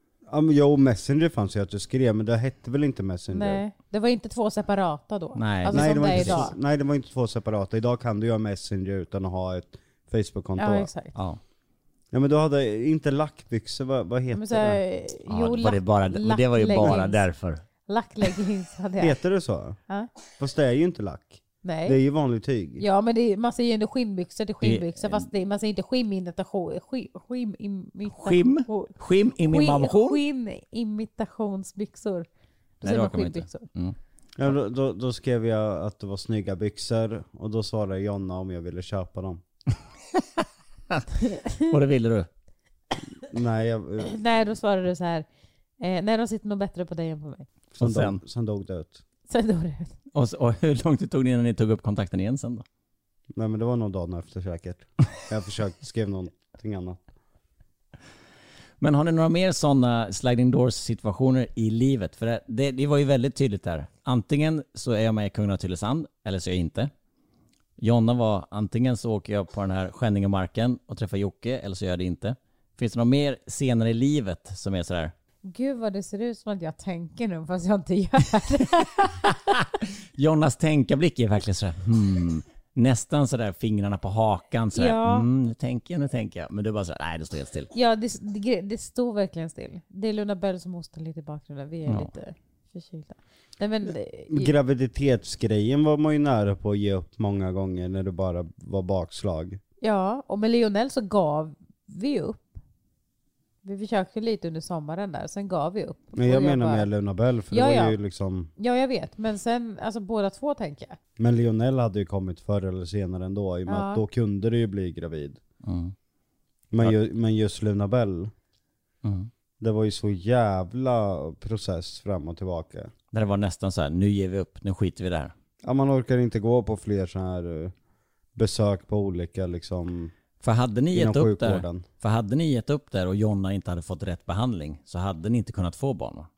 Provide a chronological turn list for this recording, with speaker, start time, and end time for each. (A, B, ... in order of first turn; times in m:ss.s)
0:00.3-0:03.6 A
0:03.3-0:06.5 B
0:05.3-0:06.4 C
0:05.7-0:10.9 A
0:10.6-0:11.1 B
0:11.1-0:11.4 C
0:12.1-0:14.8 A
0:14.3-0:17.2 B
0:15.3-0:17.6 C
0:17.8-0:19.2 B
0:19.0-0:19.8 A
0:20.4-0:22.8 A
0:21.6-0:22.0 B
0:22.8-0:32.3 B
0:24.6-0:25.3 C
0:28.1-0:30.2 C
0:32.8-0:33.6 B
0:32.8-0:34.5 C
0:34.4-0:39.4 A
0:40.1-0:41.1 C
0:41.2-0:41.7 B
0:41.6-0:42.3 C
0:43.2-0:44.2 A
0:44.0-0:45.2 B
0:45.8-0:47.5 B
0:47.7-0:49.0 A
0:47.8-0:48.2 C
0:49.3-0:49.9 B
0:50.1-0:52.6 C
0:53.4-0:57.0 A
0:58.8-1:06.9 C
1:07.8-1:15.1 C
1:15.5-1:19.3 B
1:19.3-1:27.7 C
1:24.7-1:25.2 B
1:27.7-1:34.5 B
1:34.3-1:39.6 A
1:39.8-1:42.5 B
1:43.6-1:46.9 B
1:46.2-1:48.5 A
1:47.5-1:48.0 B
1:48.6-1:51.0 B
1:51.2-1:55.4 A
1:53.7-1:54.0 B
1:55.6-1:55.9 C
1:56.7-1:58.3 A
1:59.0-1:59.3 C
1:59.6-2:02.9 A
2:03.1-2:05.3 C
2:05.6-2:07.7 A
2:08.3-2:10.1 A
2:10.4-2:16.3 C
2:10.9-2:11.8 A